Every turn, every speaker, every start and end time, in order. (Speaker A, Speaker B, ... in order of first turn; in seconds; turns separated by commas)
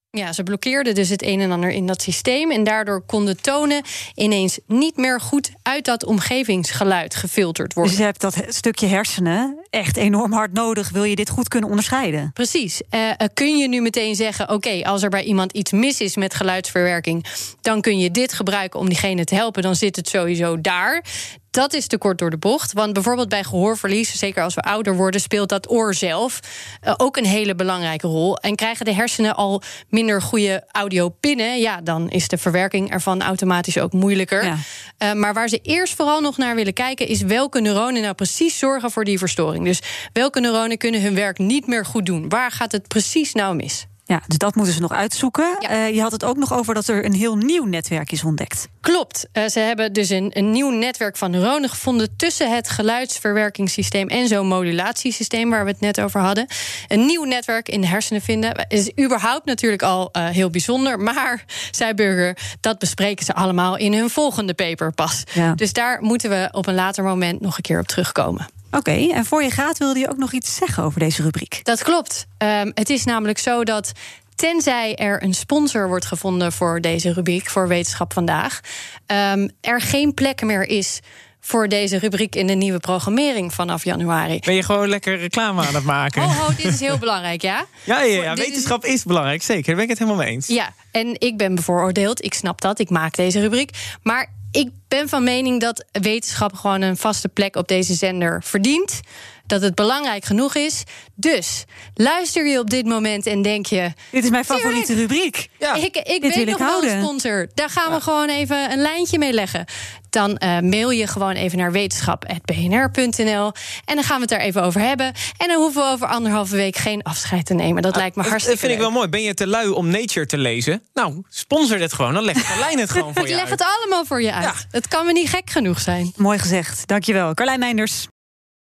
Speaker A: 0.1-8.0, Speaker B: 7.8-12.3, Speaker A: 12.3-43.9, Speaker B: 44.1-48.7, Speaker A: 48.8-68.5, Speaker B: 68.7-71.6, Speaker A: 71.7-84.5, Speaker C: 84.4-86.9, Speaker A: 86.1-88.8, Speaker C: 87.8-90.5, Speaker A: 90.5-104.0, Speaker B: 104.1-105.7, Speaker A: 104.5-104.9, Speaker A: 105.7-118.9, Speaker B: 106.2-107.1, Speaker C: 118.0-123.6, Speaker A: 123.1-126.1, Speaker B: 126.2-128.1